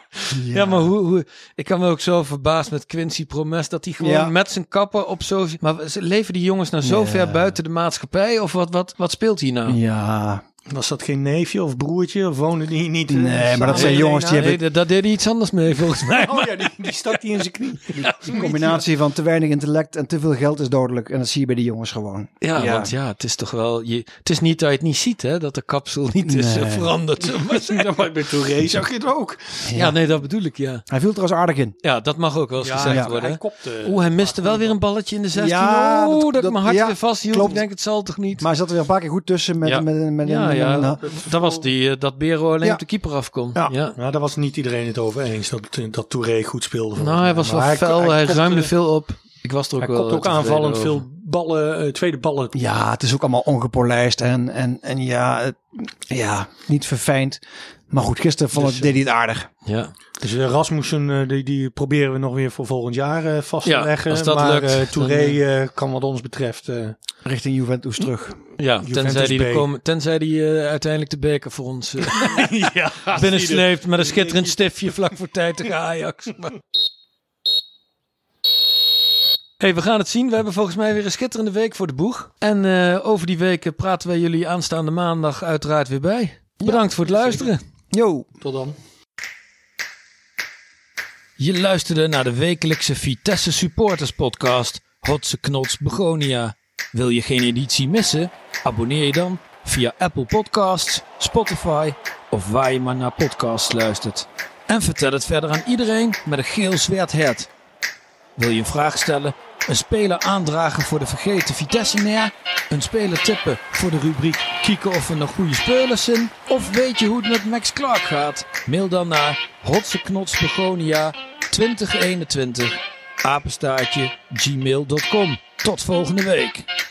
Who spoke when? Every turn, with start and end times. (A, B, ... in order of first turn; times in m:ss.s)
0:00.3-0:00.9 A
0:00.5-0:09.8 B
0:04.0-0:04.3 A
0:06.8-0:07.5 A
0:09.7-0:10.4 A
0:10.7-0:14.6 C
0:13.1-0:14.6 A
0:13.7-0:17.2 B
0:15.9-0:18.8 C
0:17.9-0:18.3 B
0:18.0-0:22.9 A
0:22.4-0:27.9 B
0:26.2-0:26.9 A
0:27.2-0:29.7 C
0:29.6-0:30.0 A
0:29.7-0:30.8 B
0:30.9-0:31.8 A
0:31.8-0:38.5 B
0:32.6-0:34.8 C
0:32.8-0:33.1 A
0:35.3-0:37.6 A
0:38.4-0:41.0 A
0:39.6-0:44.0 B
0:41.0-0:41.7 C
0:43.9-0:48.7 C
0:47.0-0:51.0 B
0:49.8-0:52.6 C
0:52.5-0:59.5 A
0:58.5-0:59.0 C
0:59.6-0:59.9 B
1:00.2-1:07.0 C
1:03.6-1:05.4 B
1:07.2-1:08.4 A
1:08.6-1:12.5 B
1:08.8-1:09.7 C
1:12.0-1:14.6 C
1:13.1-1:16.6 B
1:19.6-1:27.6 B
1:27.0-1:27.5 C
1:27.9-1:28.2 A
1:28.4-1:28.8 C
1:31.4-1:47.5 B
1:48.4-2:06.7 B